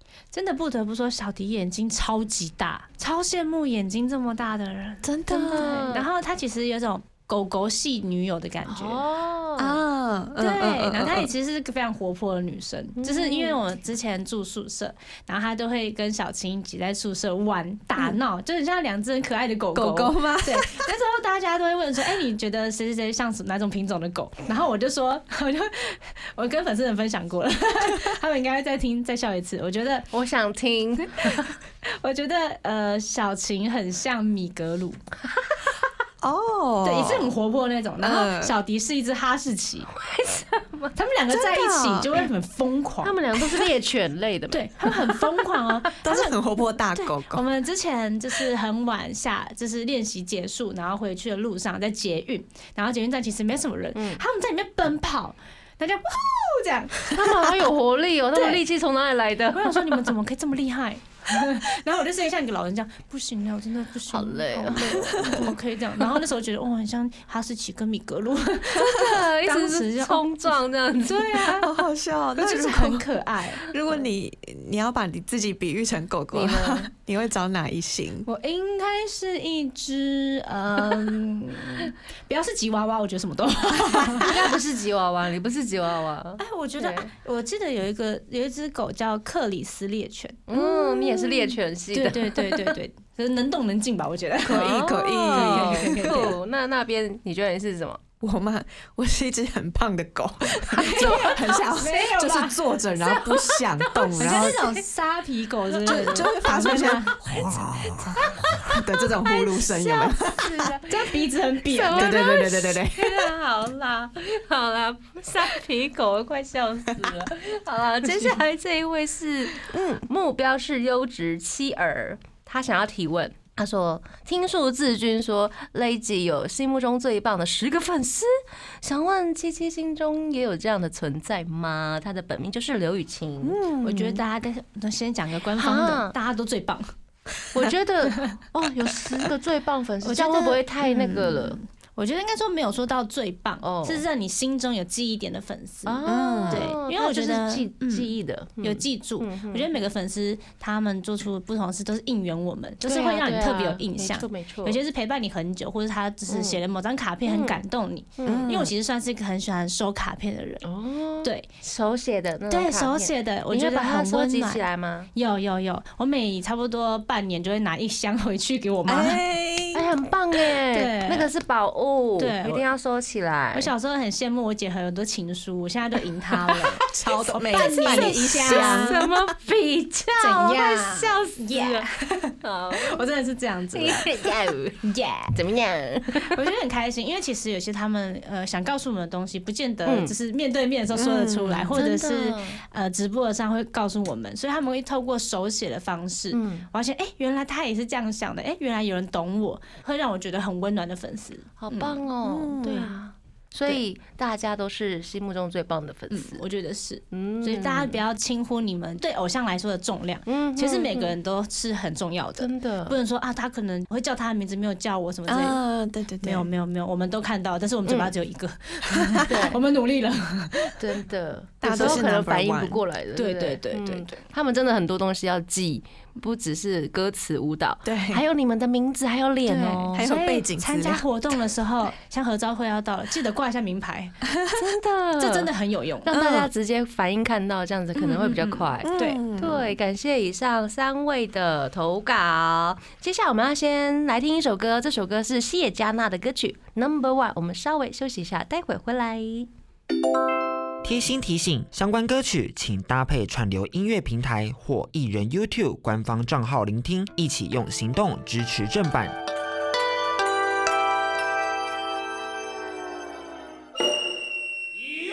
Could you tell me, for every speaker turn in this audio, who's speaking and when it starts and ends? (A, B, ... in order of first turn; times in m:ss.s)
0:00.3-0:09.0 A
0:05.0-0:05.8 B
0:05.3-0:06.1 C
0:08.6-0:09.8 C
0:09.6-0:11.3 B
0:10.4-0:30.1 A
0:13.0-0:13.6 C
0:19.7-0:20.9 B
0:30.1-0:31.5 C
0:31.1-0:35.0 A
0:36.2-0:37.3 B
0:36.8-0:39.9 A
0:38.0-0:38.5 B
0:39.9-0:41.0 C
0:40.9-0:43.4 A
0:41.3-0:42.2 B
0:43.0-0:45.4 C
0:44.5-0:46.3 A
0:46.0-0:47.4 B
0:46.9-0:57.6 A
0:53.9-0:54.2 C
0:57.1-1:00.1 C
0:58.3-0:58.6 A
0:59.5-1:11.6 A
1:04.1-1:05.5 C
1:04.8-1:05.5 B
1:08.8-1:11.7 C
1:11.5-1:13.0 B
1:12.4-1:13.6 A
1:13.7-1:18.3 B
1:16.3-1:16.9 C
1:18.2-1:24.3 A
1:24.2-1:27.1 C
1:26.4-1:36.4 A
1:30.5-1:32.8 C
1:34.4-1:36.3 B
1:34.5-1:38.0 C
1:38.2-1:44.6 B
1:40.7-1:42.6 A
1:43.0-1:44.8 C
1:44.2-1:47.2 A
1:45.8-1:50.7 B
1:45.9-1:46.8 C
1:48.2-2:13.6 C
1:50.9-1:52.3 A
1:51.9-1:53.3 B
1:59.7-2:00.0 B
2:13.4-2:14.2 B
2:13.8-2:16.9 A
2:15.6-2:16.1 C
2:17.5-2:21.6 C
2:18.1-2:18.4 A
2:20.0-2:28.1 A
2:23.6-2:24.0 C
2:25.8-2:29.8 C
2:26.0-2:26.7 B
2:28.6-2:40.6 A
2:32.8-2:34.8 C
2:36.3-2:36.6 C
2:37.2-2:37.6 C
2:38.2-2:38.5 C
2:38.2-2:38.7 B
2:40.6-2:45.1 C
2:42.5-2:44.6 A
2:45.1-2:49.2 A
2:48.9-2:49.9 B
2:49.7-2:53.7 C
2:50.7-2:51.3 A
2:52.2-2:52.6 A
2:53.5-2:58.9 A
2:56.8-2:59.3 B
2:57.5-3:01.9 C
3:00.2-3:04.3 A
3:02.4-3:03.0 C
3:03.7-3:04.8 C
3:04.8-3:05.4 A
3:05.3-3:06.4 C
3:06.2-3:22.0 A
3:09.8-3:10.1 C
3:10.9-3:11.7 B
3:11.7-3:12.6 C
3:16.3-3:16.7 C
3:21.6-3:26.4 C
3:22.2-3:22.9 B
3:22.6-3:23.0 A
3:26.1-3:35.6 A
3:27.1-3:28.0 C
3:30.3-3:31.1 C
3:32.4-3:33.0 C
3:35.3-3:36.5 B
3:36.2-3:40.8 A
3:37.8-3:38.1 C
3:39.2-3:39.6 C
3:40.8-3:50.1 C
3:41.6-3:42.8 B
3:41.7-3:42.0 A
3:43.1-3:44.2 A
3:47.8-3:48.2 B
3:49.5-3:54.2 A
3:49.9-3:51.0 B
3:54.3-3:54.6 B
3:54.5-3:55.5 C
3:55.2-3:56.1 A
3:56.0-4:09.5 C
3:56.1-3:56.5 B
3:58.0-3:59.2 A
3:58.8-3:59.8 B
4:10.8-4:19.2 D